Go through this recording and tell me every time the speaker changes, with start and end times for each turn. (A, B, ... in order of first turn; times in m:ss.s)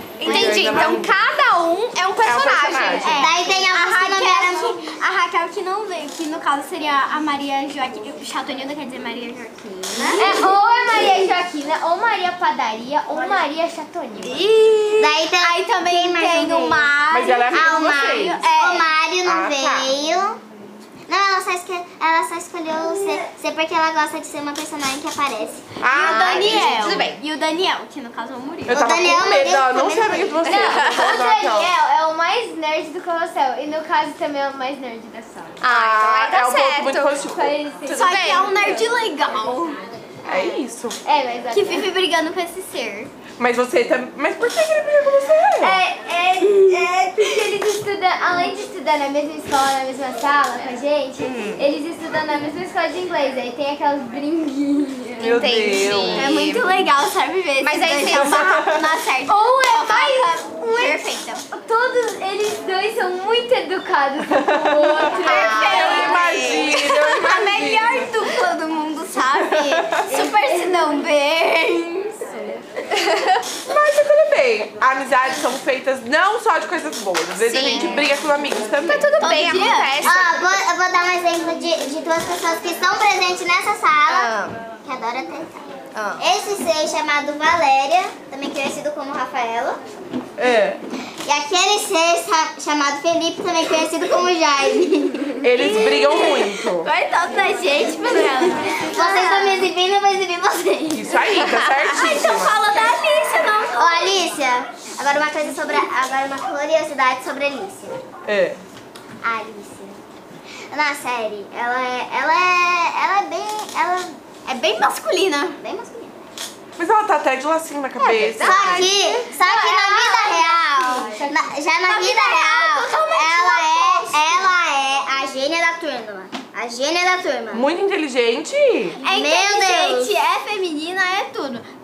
0:00.2-0:03.3 A
0:00.2-0:01.1 B
0:02.2-0:03.2 B
0:03.0-0:10.4 C
0:03.1-0:04.8 D
0:09.9-0:10.4 D
0:10.2-0:14.4 E
0:14.2-0:18.9 C
0:15.0-0:16.9 D
0:17.1-0:18.4 B
0:17.5-0:20.4 D
0:19.2-0:19.9 B
0:21.1-0:25.8 D
0:25.8-0:26.8 B
0:25.9-0:28.8 C
0:25.9-0:27.2 A
0:28.7-0:31.7 B
0:28.7-0:30.6 D
0:30.4-0:31.1 A
0:30.8-0:35.6 E
0:35.6-0:37.3 A
0:35.7-0:37.6 B
0:37.3-0:39.0 E
0:37.9-0:39.8 C
0:37.9-0:38.4 A
0:40.3-0:41.0 B
0:41.0-0:41.9 E
0:41.5-0:43.1 C
0:43.4-0:45.8 B
0:45.6-0:55.4 E
0:46.7-0:47.3 C
0:51.2-0:51.6 A
0:55.2-0:56.2 B
0:55.2-0:56.7 A
0:56.1-1:01.5 C
0:57.6-0:58.7 A
0:58.2-0:58.8 B
0:59.3-1:01.0 E
1:01.6-1:06.1 E
1:04.3-1:08.1 B
1:05.2-1:06.4 A
1:05.2-1:12.3 C
1:09.3-1:10.1 B
1:10.1-1:10.8 E
1:12.3-1:12.6 E
1:13.6-1:19.1 B
1:17.4-1:18.1 A
1:18.9-1:20.3 A
1:19.2-1:20.0 C
1:20.0-1:29.8 D
1:24.1-1:24.6 A
1:26.0-1:26.2 A
1:30.4-1:30.8 B
1:31.2-1:35.4 D
1:35.4-1:36.9 B
1:35.5-1:39.6 C
1:38.8-1:41.2 D
1:40.9-1:42.6 B
1:41.8-1:44.2 C
1:43.8-1:48.0 D
1:48.3-1:48.6 B
1:49.2-1:50.0 D
1:50.7-1:54.2 D
1:54.5-1:55.6 C
1:55.6-1:56.2 D
1:56.8-1:58.9 B
1:58.0-1:59.3 A
1:58.4-2:07.7 D
1:59.4-2:01.2 C
2:01.0-2:01.5 E
2:01.8-2:04.5 C
2:07.5-2:09.0 B
2:09.0-2:11.7 C
2:09.1-2:10.2 D